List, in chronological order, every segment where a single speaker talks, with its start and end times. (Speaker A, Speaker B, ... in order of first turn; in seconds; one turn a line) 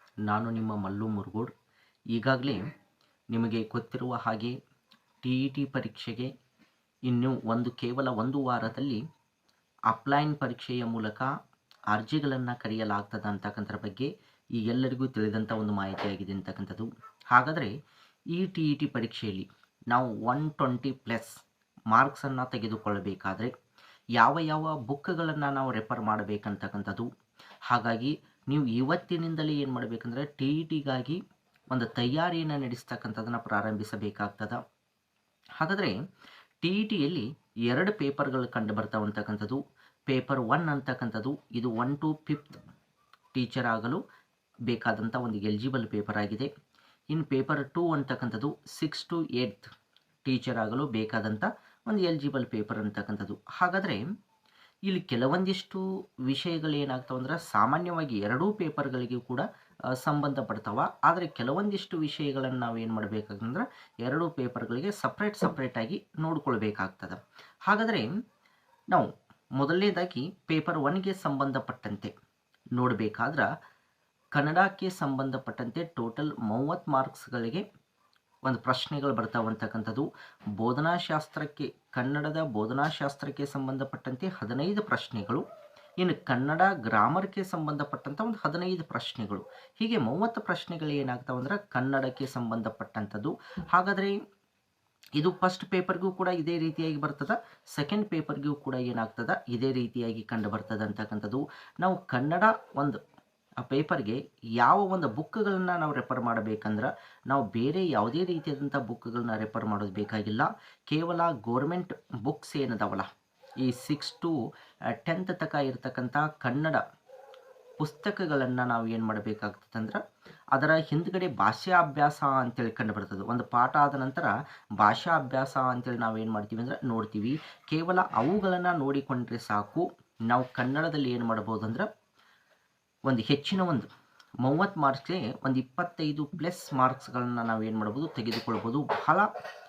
Speaker A: 0.3-1.5
Speaker A: 2.1-2.6
Speaker A: 3.3-4.6
Speaker A: 5.2-6.3
Speaker A: 7.1-9.0
Speaker A: 9.9-11.3
Speaker A: 11.9-17.7
Speaker A: 18.3-21.4
Speaker A: 21.9-23.5
Speaker A: 24.2-27.1
Speaker A: 27.7-31.2
Speaker A: 31.7-34.6
Speaker A: 35.6-36.0
Speaker A: 36.6-42.6
Speaker A: 43.3-44.0
Speaker A: 44.7-46.5
Speaker A: 47.1-49.7
Speaker A: 50.2-54.0
Speaker A: 54.9-59.4
Speaker A: 60.0-68.1
Speaker A: 68.9-72.1
Speaker A: 72.8-73.5
Speaker A: 74.3-77.6
Speaker A: 78.4-85.4
Speaker A: 86.0-94.2
Speaker A: 95.2-103.0
Speaker A: 103.6-113.1
Speaker A: 113.6-114.4
Speaker A: 114.9-116.8
Speaker A: 117.8-120.0
Speaker A: 120.5-131.9
Speaker A: 133.1-133.9
Speaker A: 134.4-139.3